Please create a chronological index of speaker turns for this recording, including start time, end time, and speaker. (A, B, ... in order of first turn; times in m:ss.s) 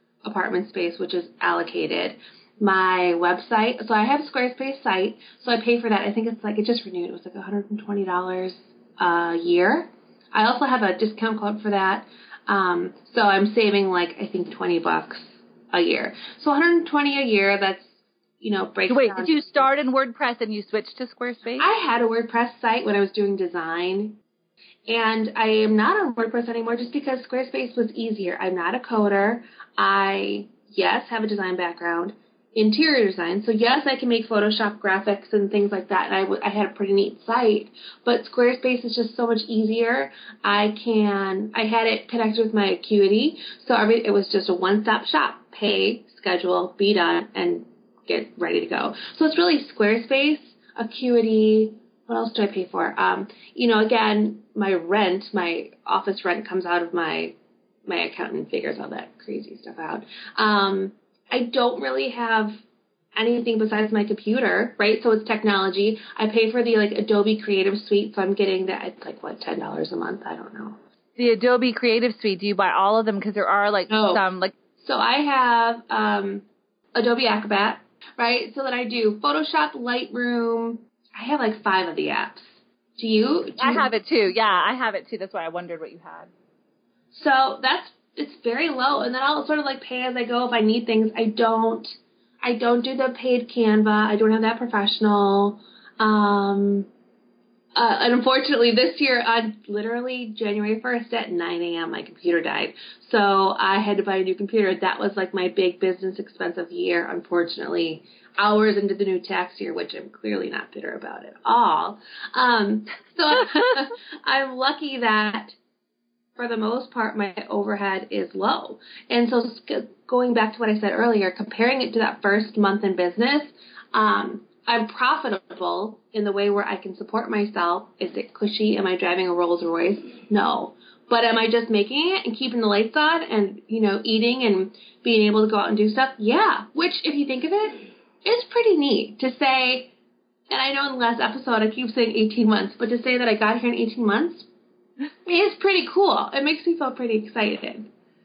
0:00.2-0:19.7 A
0:18.9-0:21.7 B
0:21.6-0:24.2 A
0:24.9-1:02.6 A
1:03.1-1:10.8 A
1:11.2-1:14.5 B
1:13.9-1:14.2 A
1:14.8-1:23.9 A
1:23.6-1:26.3 B
1:27.1-1:36.9 A
1:37.7-1:55.6 A
1:56.4-2:19.9 A
2:20.5-2:24.5 A
2:25.2-2:27.9 A